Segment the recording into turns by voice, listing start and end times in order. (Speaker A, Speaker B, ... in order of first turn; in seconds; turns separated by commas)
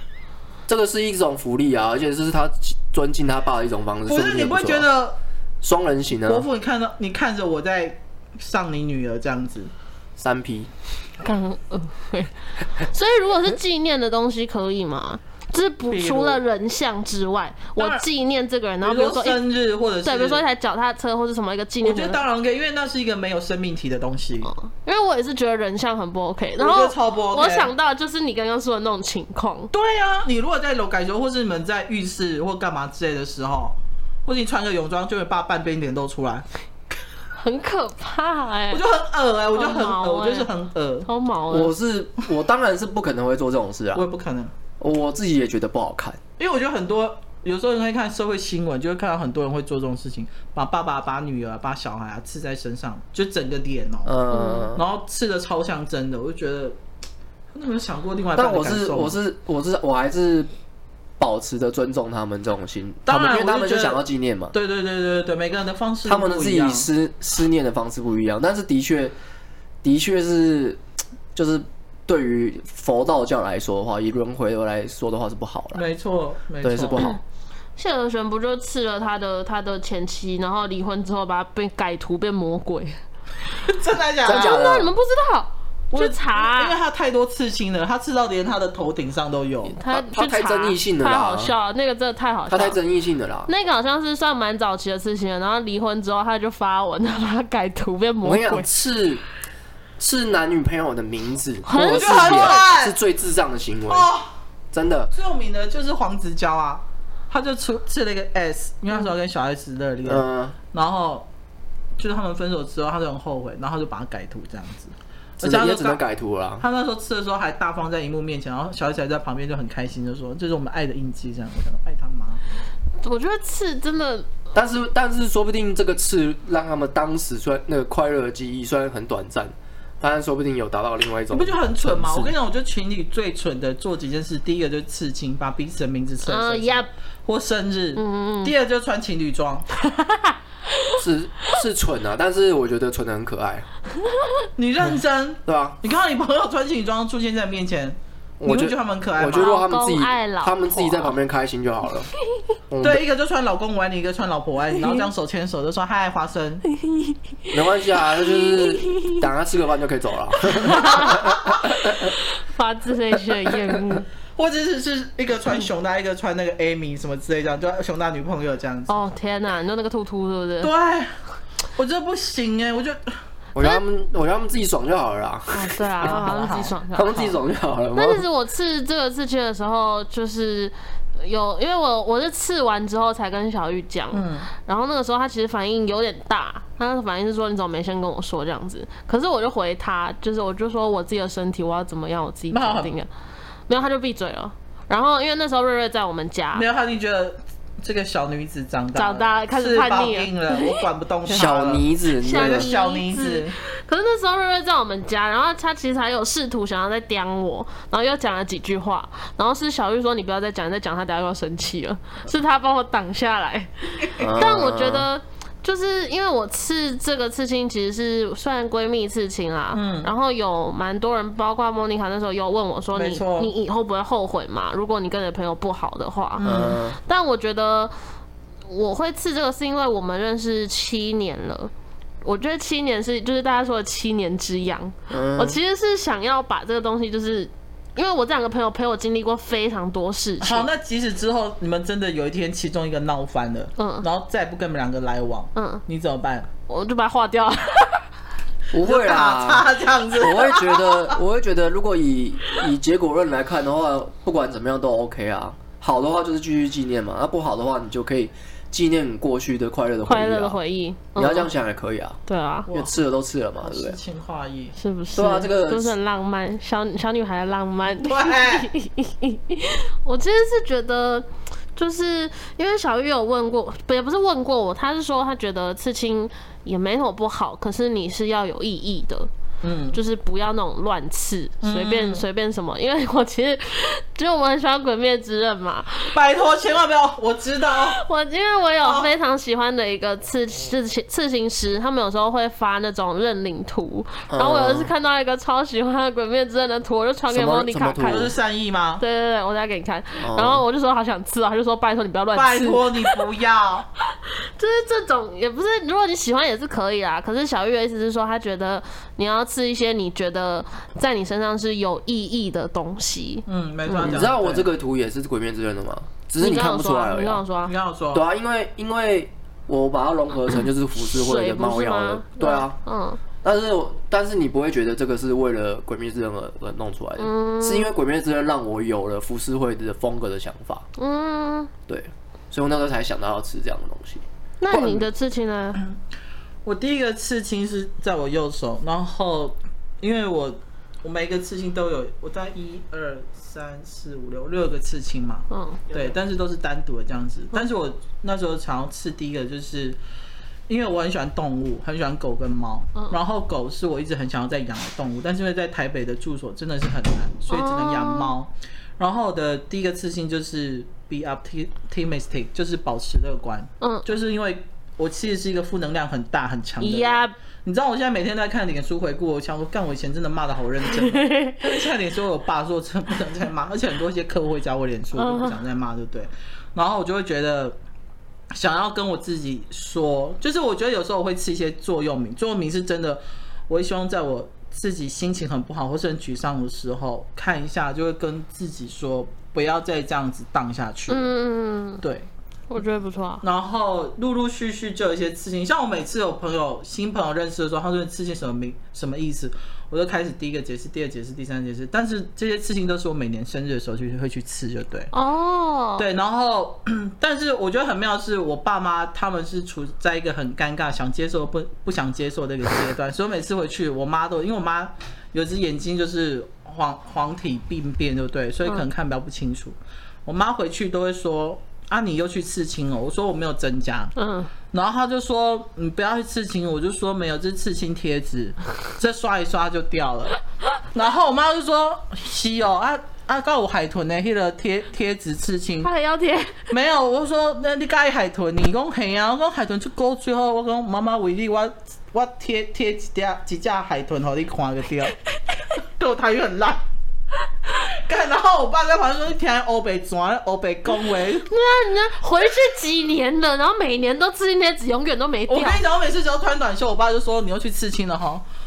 Speaker A: 0.7-4.9, Speaker B: 4.1-5.2, Speaker A: 5.6-6.5, Speaker B: 6.2-9.7, Speaker A: 10.2-10.7, Speaker C: 11.2-19.4, Speaker B: 15.9-16.4, Speaker B: 17.8-18.1, Speaker B: 18.8-20.4, Speaker C: 20.0-22.2, Speaker B: 21.8-24.5, Speaker C: 24.4-29.7, Speaker B: 26.6-27.7, Speaker B: 29.7-36.5, Speaker C: 37.4-38.8, Speaker B: 38.7-41.1, Speaker C: 39.5-40.5, Speaker C: 41.0-41.7, Speaker A: 41.5-44.1, Speaker B: 43.9-44.5, Speaker A: 44.8-46.2, Speaker B: 46.4-54.2, Speaker A: 54.1-54.8, Speaker C: 54.3-54.7, Speaker B: 54.8-56.8, Speaker B: 57.5-59.2, Speaker A: 58.4-60.5, Speaker A: 61.2-64.5, Speaker B: 63.1-66.9, Speaker A: 66.0-69.2, Speaker A: 69.8-70.8, Speaker A: 71.3-75.8, Speaker B: 75.7-77.0, Speaker A: 76.6-77.2, Speaker C: 77.8-83.0, Speaker B: 83.6-84.6, Speaker A: 84.2-84.9, Speaker C: 84.2-86.8, Speaker B: 85.9-89.8, Speaker C: 89.7-92.8, Speaker A: 89.9-91.5, Speaker A: 92.5-93.5, Speaker C: 93.5-98.7, Speaker A: 98.2-99.2, Speaker A: 100.0-104.1, Speaker C: 101.7-102.6, Speaker B: 101.8-103.0, Speaker B: 103.9-104.3, Speaker A: 104.7-105.1, Speaker B: 105.1-111.3, Speaker A: 110.0-110.6, Speaker B: 112.0-116.0, Speaker A: 115.4-116.7, Speaker B: 116.6-122.4, Speaker C: 123.0-124.3, Speaker A: 124.5-132.3, Speaker B: 131.3-139.7, Speaker C: 136.2-136.9, Speaker C: 137.9-138.5, Speaker A: 141.0-143.7, Speaker B: 144.6-149.5, Speaker A: 145.4-145.8, Speaker A: 148.4-152.1, Speaker C: 149.3-151.2, Speaker A: 152.7-153.0, Speaker B: 152.8-156.6, Speaker C: 154.8-155.1, Speaker C: 156.7-159.2, Speaker A: 157.5-162.1, Speaker C: 160.6-164.1, Speaker B: 164.4-169.0, Speaker C: 168.9-170.7, Speaker B: 170.6-171.2, Speaker B: 171.8-173.2, Speaker A: 173.6-176.3, Speaker C: 175.5-177.3, Speaker B: 176.0-176.8, Speaker A: 176.9-178.2, Speaker C: 177.9-193.1, Speaker B: 184.1-184.5, Speaker B: 192.5-192.9, Speaker C: 193.7-196.7, Speaker B: 196.6-203.6, Speaker C: 198.9-200.8, Speaker A: 201.3-202.7, Speaker C: 202.2-227.9, Speaker A: 214.2-215.1, Speaker B: 219.7-220.1, Speaker B: 222.9-223.5, Speaker B: 226.4-226.8, Speaker A: 226.4-227.0, Speaker C: 228.7-231.7, Speaker C: 232.2-240.7, Speaker A: 235.1-235.6, Speaker B: 240.4-246.5, Speaker C: 243.8-244.1, Speaker C: 245.6-245.8, Speaker C: 246.7-248.0, Speaker A: 248.7-260.6, Speaker B: 248.8-251.2, Speaker C: 260.1-261.5, Speaker A: 261.2-262.2, Speaker C: 262.3-262.7, Speaker B: 262.7-263.0, Speaker A: 262.7-264.0, Speaker B: 263.6-264.8, Speaker C: 264.8-279.3, Speaker A: 265.1-265.9, Speaker B: 268.0-268.7, Speaker B: 279.6-280.0, Speaker C: 279.9-286.2, Speaker B: 281.6-282.2, Speaker B: 286.1-288.0, Speaker C: 287.9-298.3, Speaker B: 288.8-289.1, Speaker A: 294.3-294.9, Speaker A: 297.3-298.3, Speaker B: 298.0-299.0, Speaker C: 299.0-303.2, Speaker A: 300.2-300.6, Speaker B: 302.3-303.9, Speaker C: 304.6-314.3, Speaker B: 313.5-314.7, Speaker A: 314.0-317.4, Speaker C: 316.4-317.7, Speaker B: 317.6-318.2, Speaker A: 318.1-322.8, Speaker C: 321.0-323.2, Speaker A: 323.4-330.9, Speaker C: 327.2-327.9, Speaker C: 331.0-331.7, Speaker A: 331.9-335.1, Speaker C: 334.6-335.8, Speaker B: 336.6-350.0, Speaker C: 345.5-345.9, Speaker B: 350.7-377.8, Speaker C: 357.5-358.3, Speaker C: 363.8-364.1, Speaker C: 366.8-367.3, Speaker C: 371.0-371.6, Speaker C: 375.2-375.6, Speaker B: 378.5-391.3, Speaker C: 391.1-392.0, Speaker B: 392.0-392.3, Speaker C: 392.7-393.4, Speaker B: 393.4-405.1, Speaker C: 405.1-406.1, Speaker B: 406.0-424.1, Speaker C: 424.2-424.5, Speaker B: 424.7-430.4, Speaker B: 430.9-435.9, Speaker C: 435.8-436.7, Speaker B: 436.7-445.1, Speaker B: 446.0-446.8, Speaker B: 447.8-451.5, Speaker C: 451.5-455.8, Speaker B: 455.5-458.4